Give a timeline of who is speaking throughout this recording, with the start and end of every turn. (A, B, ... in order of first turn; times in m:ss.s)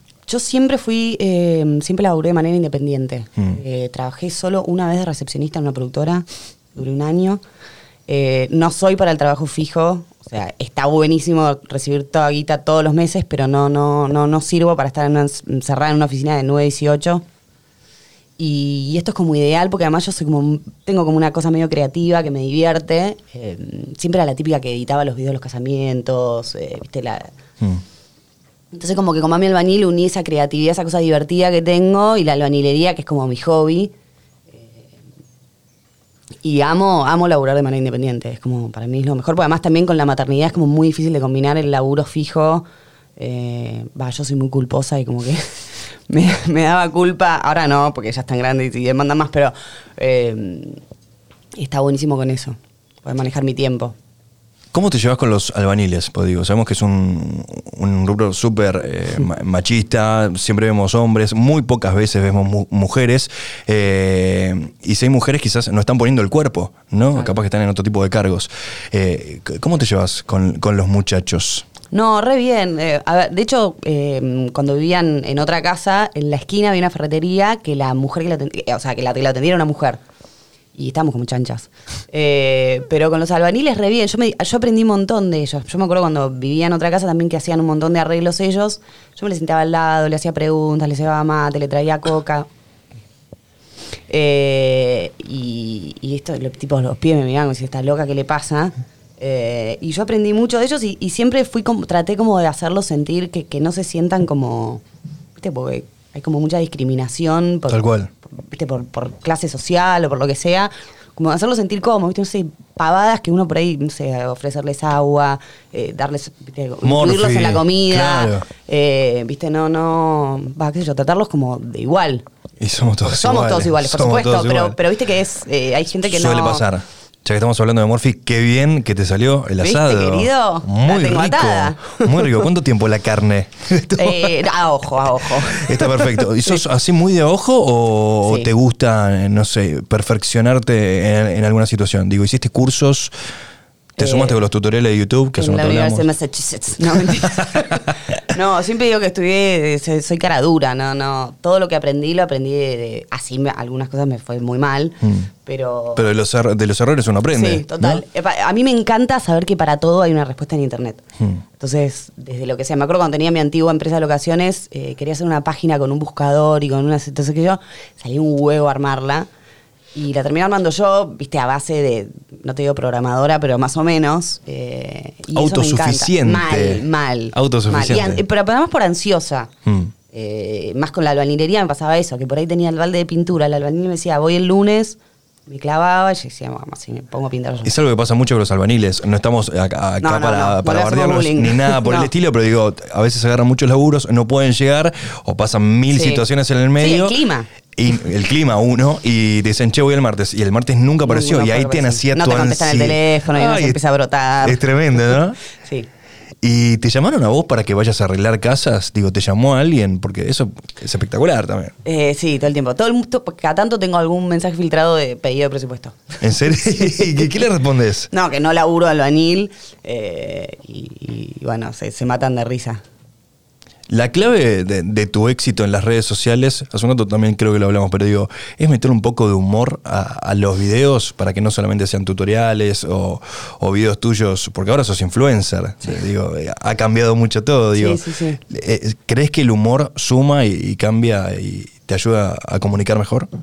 0:00.3-0:07.4 A
0:08.1-0:17.2 A
0:18.4-0:27.3 A
0:28.7-0:33.9 A
0:34.5-0:34.8 A
0:36.4-0:42.6 A
0:43.2-0:45.6 A
0:46.1-0:50.8 A
0:51.6-0:54.0 A
0:54.7-1:11.7 B
1:11.9-1:20.0 A
1:20.7-1:32.5 A
1:34.1-1:44.8 A
1:45.4-2:02.2 A
1:47.7-1:48.1 B
1:56.8-1:58.4 B
2:02.6-2:04.8 B
2:03.0-2:06.6 A
2:06.0-2:14.5 B
2:09.6-2:12.5 A
2:14.0-2:16.1 A
2:15.4-2:23.1 B
2:18.2-2:18.5 A
2:24.0-2:26.0 B
2:24.0-2:24.4 A
2:25.4-2:36.1 A
2:27.1-2:27.9 B
2:35.0-2:35.3 B
2:36.0-2:38.0 B
2:37.3-2:41.0 A
2:41.6-2:49.3 A
2:49.9-2:59.5 A
2:55.3-2:58.2 B
2:59.6-2:59.9 B
3:00.1-3:07.7 A
3:07.6-3:17.2 B
3:10.0-3:12.1 A
3:15.9-3:16.2 A
3:16.8-3:17.5 A
3:17.7-3:23.8 B
3:21.0-3:25.9 A
3:24.4-3:25.4 B
3:26.4-3:31.7 B
3:31.8-3:36.2 A
3:36.2-3:38.1 B
3:36.8-3:37.3 A
3:38.1-3:42.8 A
3:43.9-4:03.3 B
3:57.7-3:58.4 A